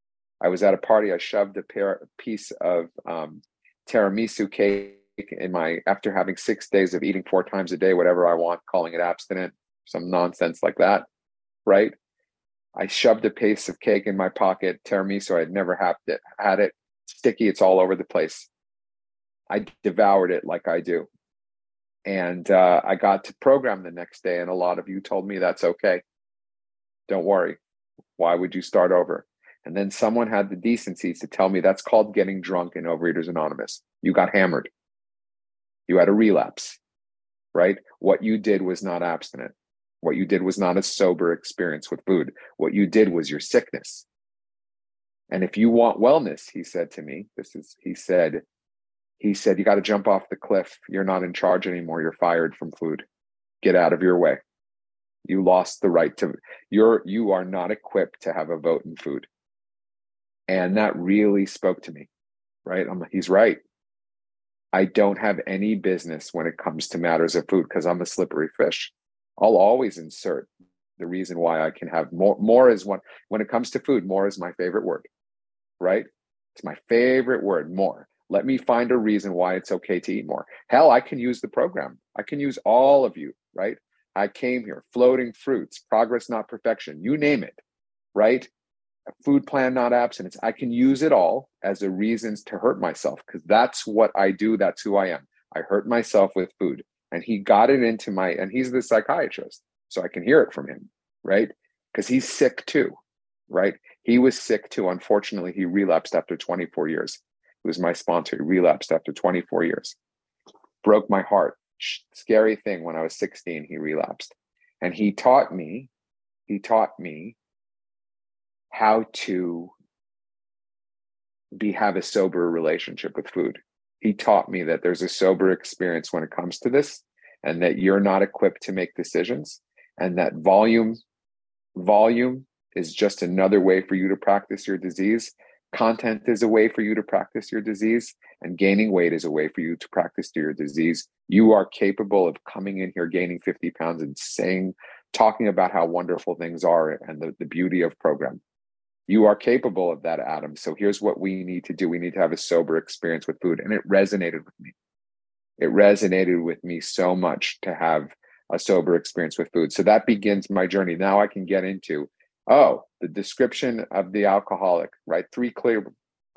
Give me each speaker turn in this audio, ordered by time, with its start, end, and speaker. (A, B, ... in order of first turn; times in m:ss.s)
0:00.4-0:11.1 A
0:11.7-0:11.9 A
0:12.8-0:18.5 A
0:19.5-0:21.1 A
0:22.1-0:26.0 A
0:27.1-0:27.6 A
0:28.2-0:34.7 A
0:35.9-0:36.8 A
0:37.5-0:44.1 A
0:45.3-0:48.4 A
0:49.2-0:53.0 A
0:53.6-0:54.4 A
0:55.3-0:59.3 A
1:00.5-1:02.1 A
1:02.6-1:03.6 A
1:04.7-1:15.1 A
1:15.8-1:27.6 A
1:28.2-1:28.5 A
1:29.2-1:43.0 A
1:43.5-1:50.0 A
1:50.8-1:55.9 A
1:56.5-1:57.4 A
1:58.7-1:59.7 A
2:01.6-2:11.0 A
2:11.8-2:28.4 A
2:29.1-2:34.7 A
2:35.6-2:45.9 A